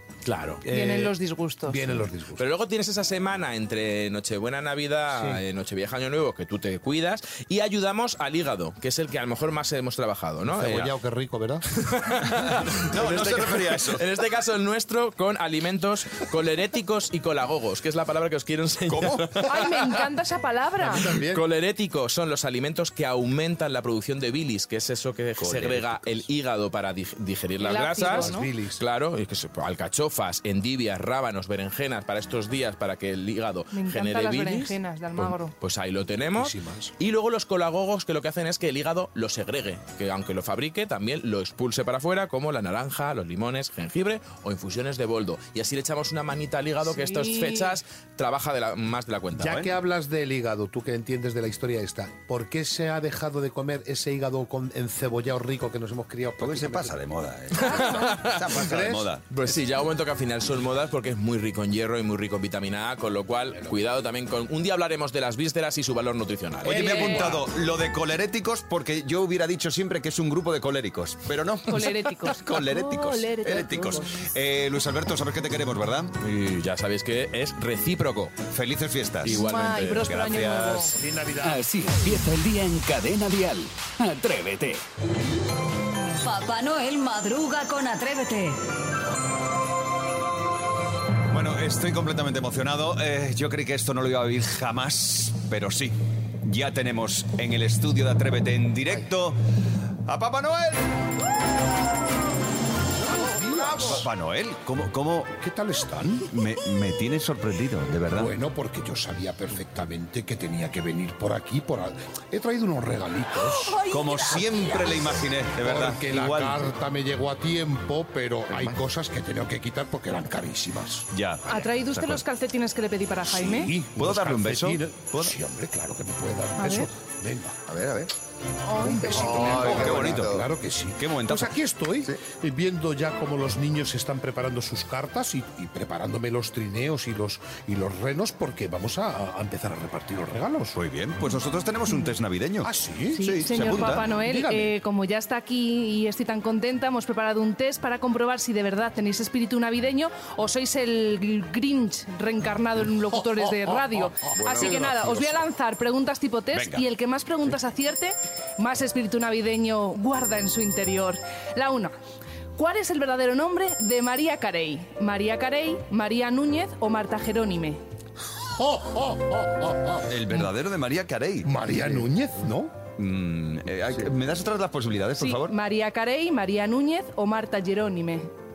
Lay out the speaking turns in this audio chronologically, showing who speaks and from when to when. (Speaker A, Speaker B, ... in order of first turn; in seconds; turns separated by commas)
Speaker A: 0.2-0.6, Speaker B: 0.6-2.5, Speaker C: 0.7-1.8, Speaker A: 2.4-10.9, Speaker B: 5.1-5.4, Speaker B: 10.5-11.7, Speaker A: 11.8-19.9, Speaker D: 12.8-14.0, Speaker D: 18.9-19.5, Speaker C: 19.4-21.0, Speaker B: 20.8-21.4, Speaker A: 21.0-49.6, Speaker D: 25.4-26.2, Speaker C: 27.6-28.5, Speaker B: 28.1-28.8, Speaker C: 33.7-35.5, Speaker B: 36.3-36.9, Speaker C: 46.8-47.7, Speaker B: 49.3-57.0, Speaker D: 56.4-59.2, Speaker A: 57.5-58.5, Speaker C: 57.7-58.2, Speaker B: 58.4-59.6, Speaker A: 59.3-67.4, Speaker D: 66.6-76.1, Speaker C: 66.6-67.4, Speaker C: 71.7-74.3, Speaker A: 76.2-78.3, Speaker D: 78.5-80.9, Speaker A: 79.2-80.2, Speaker C: 79.2-80.9, Speaker B: 80.9-81.7, Speaker E: 81.4-84.8, Speaker F: 86.1-88.6, Speaker D: 91.3-99.4, Speaker D: 100.0-100.9, Speaker B: 103.0-104.1, Speaker D: 103.7-105.3, Speaker B: 105.3-106.3, Speaker D: 106.2-108.3, Speaker B: 108.1-113.8, Speaker C: 113.6-114.8, Speaker D: 113.8-116.7, Speaker B: 115.5-121.1, Speaker G: 118.5-118.8, Speaker D: 121.1-122.2, Speaker C: 121.5-123.8, Speaker B: 123.2-127.6, Speaker D: 123.9-125.3, Speaker C: 126.6-126.9, Speaker G: 127.7-128.1, Speaker C: 128.7-129.7, Speaker B: 128.8-140.8, Speaker G: 129.0-130.4, Speaker D: 129.7-130.4, Speaker D: 131.0-131.5, Speaker D: 140.7-144.1, Speaker B: 142.6-144.7, Speaker C: 143.1-161.9, Speaker B: 153.5-155.0, Speaker G: 154.4-154.8, Speaker D: 156.5-156.8, Speaker C: 162.6-167.8, Speaker B: 168.5-170.1, Speaker D: 170.1-171.5, Speaker B: 171.4-172.7, Speaker D: 173.0-175.5, Speaker C: 175.2-178.3